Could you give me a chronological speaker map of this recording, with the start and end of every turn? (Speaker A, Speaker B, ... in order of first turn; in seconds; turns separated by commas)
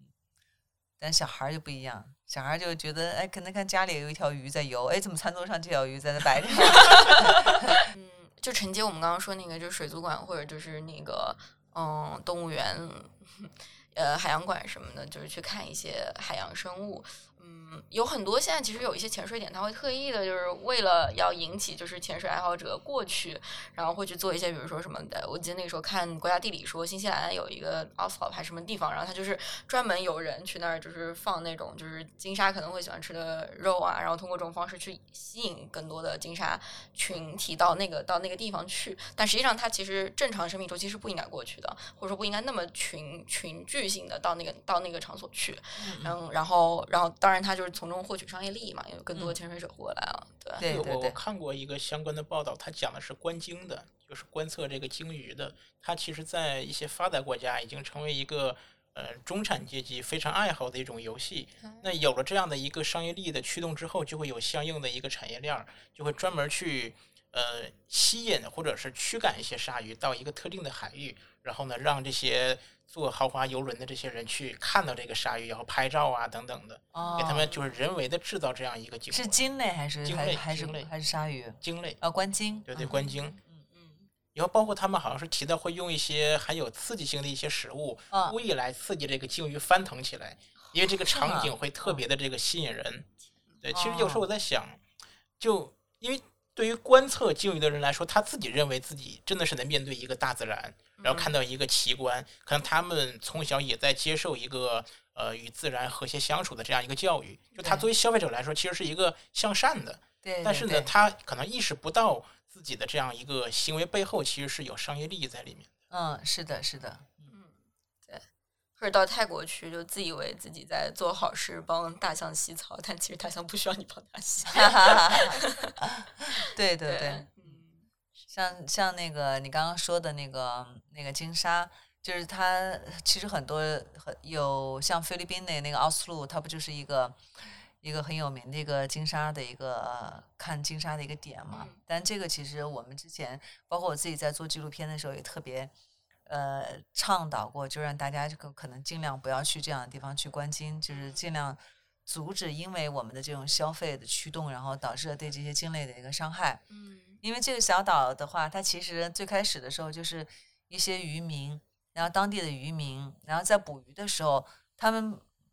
Speaker A: 1.0-7.8, Speaker B: 6.7-50.6, Speaker A: 45.8-46.1, Speaker A: 50.6-51.2, Speaker C: 50.6-79.4, Speaker B: 61.6-61.9, Speaker A: 76.9-77.5, Speaker B: 77.0-77.6, Speaker A: 79.1-82.9, Speaker C: 80.0-80.9, Speaker C: 81.6-82.0, Speaker C: 82.7-83.3, Speaker B: 82.8-84.1, Speaker C: 84.3-93.1, Speaker A: 88.1-88.4, Speaker A: 91.1-92.0, Speaker C: 93.6-94.8, Speaker A: 93.7-94.3, Speaker C: 95.4-115.7, Speaker B: 101.0-101.3, Speaker A: 107.6-107.9, Speaker A: 110.2-110.9, Speaker A: 115.9-117.3, Speaker B: 117.3-118.2, Speaker B: 118.8-125.7, Speaker A: 124.5-127.3, Speaker B: 126.3-127.9, Speaker A: 128.3-137.2, Speaker A: 137.8-145.7, Speaker B: 141.5-141.8, Speaker A: 146.3-156.6, Speaker B: 150.9-151.3, Speaker B: 156.7-157.2, Speaker A: 157.2-165.2